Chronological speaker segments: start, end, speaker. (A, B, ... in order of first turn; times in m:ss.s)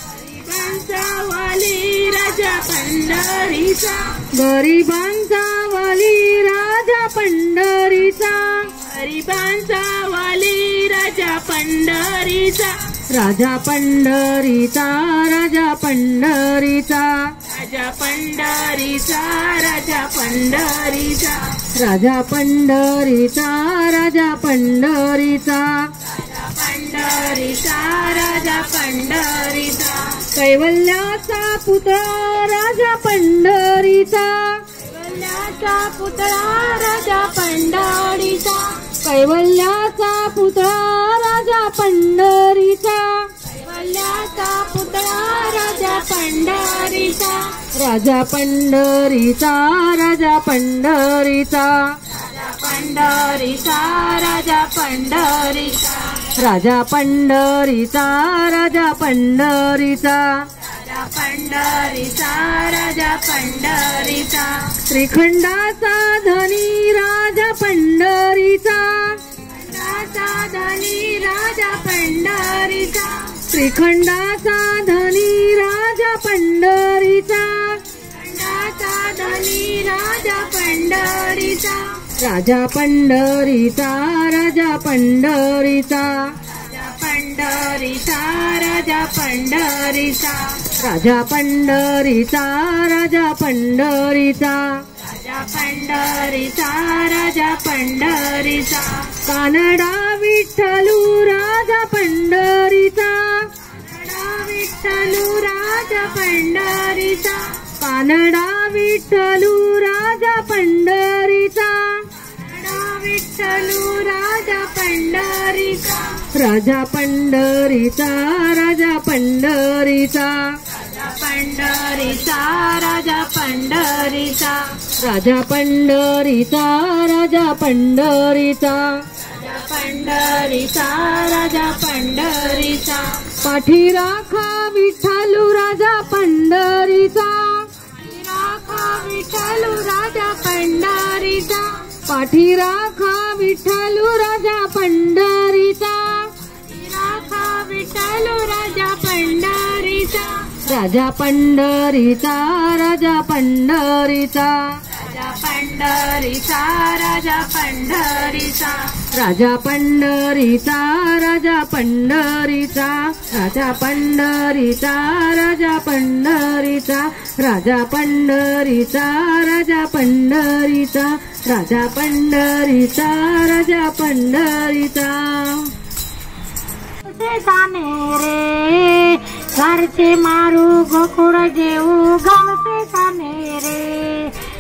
0:00.2-0:04.1 A
0:04.4-0:08.7 B
0:08.9-0:12.7 A
0:13.1-0:17.3 B
0:17.5-0:21.4 A
0:21.8-0:25.9 B
0:26.3-0:30.2 A
0:30.3-0:34.6 B
0:34.9-0:38.6 A
0:39.0-0:43.3 B
0:43.6-0:47.4 A
0:47.8-0:51.9 B
0:52.3-0:56.2 A
0:56.4-1:00.5 B
1:00.8-1:04.6 A
1:04.9-1:09.2 B
1:09.6-1:13.4 A
1:13.5-1:17.8 B
1:18.2-1:22.0 A
1:22.2-1:26.2 B
1:26.7-1:30.7 A
1:30.8-1:34.8 B
1:35.1-1:39.1 A
1:39.3-1:43.5 B
1:43.9-1:47.4 A
1:47.8-1:52.0 B
1:52.4-1:56.2 A
1:56.4-2:00.5 B
2:00.8-2:04.7 A
2:05.0-2:09.0 B
2:09.4-2:13.1 A
2:13.4-2:17.7 B
2:18.0-2:21.7 A
2:22.1-2:26.3 B
2:26.7-2:30.5 A
2:30.7-2:34.6 B
2:35.0-2:38.9 A
2:39.1-2:55.7 B
2:57.1-3:04.3 C